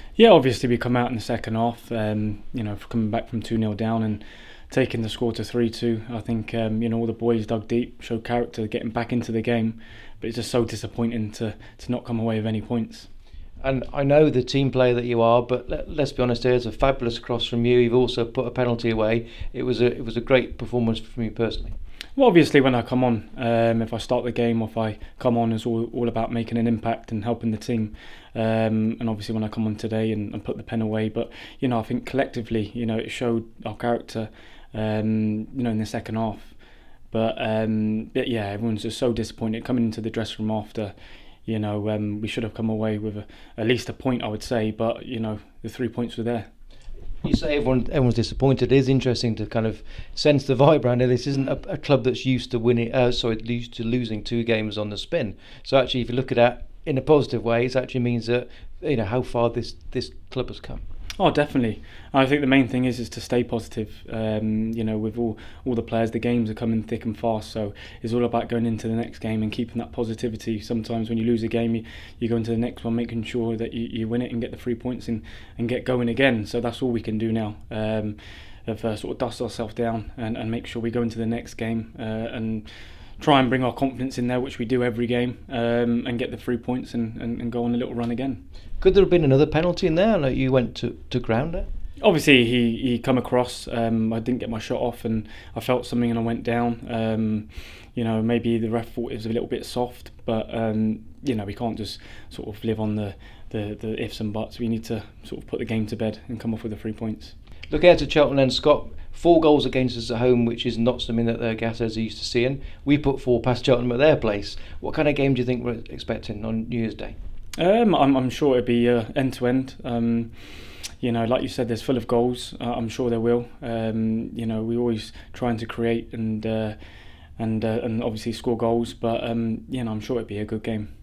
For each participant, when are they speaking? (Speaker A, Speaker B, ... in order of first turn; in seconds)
Speaker A: 0.2-13.1, 22.2-36.5, 37.1-40.9, 41.5-46.5, 61.2-82.7, 83.2-88.4, 92.0-107.3, 117.6-120.3, 121.0-126.8, 127.4-130.9
Speaker B: 13.6-21.8, 47.2-60.8, 88.8-91.7, 107.7-117.2